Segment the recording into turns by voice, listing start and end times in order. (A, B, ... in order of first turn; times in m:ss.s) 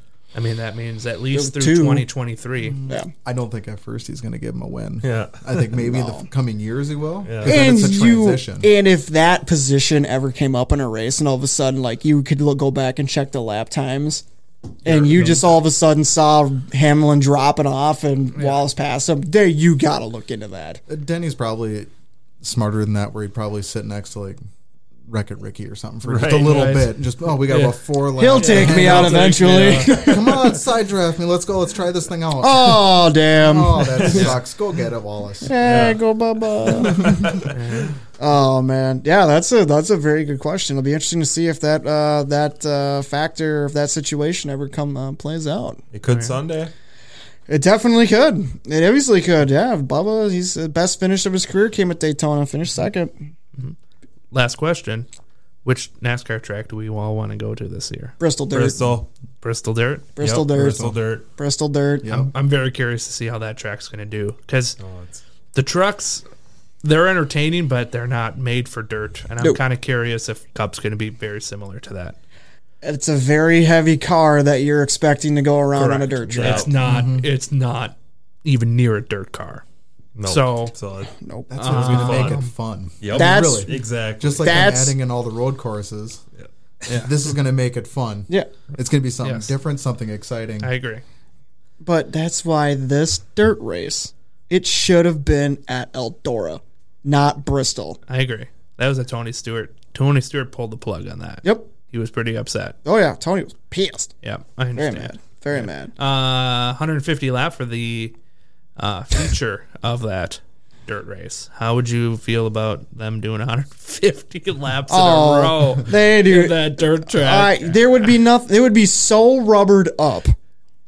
0:00.3-0:02.8 A
0:01.3-0:02.0 B
0:02.6-0:08.7 C
0:05.0-0:05.6 D
0:05.8-0:06.3 B
0:07.3-0:07.6 D
0:07.4-0:14.2 B
0:14.8-0:20.8 B
0:14.9-0:15.4 D
0:18.4-0:18.6 A
0:20.9-0:21.9 C
0:22.4-0:24.4 C
0:25.1-0:35.6 C
0:26.1-0:26.7 D
0:26.3-0:30.0 A
0:28.2-0:30.5 B
0:32.4-0:34.3 B
0:34.1-0:34.4 A
0:35.4-0:37.3 B
0:35.6-0:36.0 D
0:36.8-0:37.5 D
0:37.5-0:38.0 A
0:38.2-0:45.8 B
0:45.9-0:46.7 D
0:46.1-0:46.4 A
0:47.5-0:53.1 B
0:54.3-0:55.1 A
0:55.6-0:58.2 A
0:58.2-0:58.8 B
0:58.5-0:59.1 D
0:59.4-1:00.1 A
1:00.2-1:00.8 B
1:00.2-1:01.2 D
1:00.7-1:01.0 C
1:01.4-1:02.3 B
1:02.0-1:02.3 C
1:02.1-1:04.8 A
1:04.8-1:05.2 D
1:05.5-1:06.2 A
1:06.8-1:12.2 A
1:12.8-1:16.7 B
1:15.8-1:19.6 A
1:16.3-1:16.7 D
1:16.8-1:17.3 C
1:20.2-1:21.2 D
1:20.2-1:20.7 A
1:21.2-1:21.9 B
1:21.5-1:26.2 C
1:21.5-1:22.5 A
1:21.7-1:22.4 D
1:23.0-1:24.7 D
1:23.1-1:23.7 B
1:24.4-1:25.0 B
1:26.9-1:27.1 A
1:26.9-1:30.7 C
1:29.2-1:29.5 A
1:30.6-1:31.0 A
1:31.8-1:38.0 B
1:38.1-1:42.8 A
1:41.4-1:41.7 B
1:42.8-1:44.1 B
1:44.2-1:48.2 A
1:44.8-1:45.9 B
1:48.8-1:58.2 A
1:54.9-2:00.3 B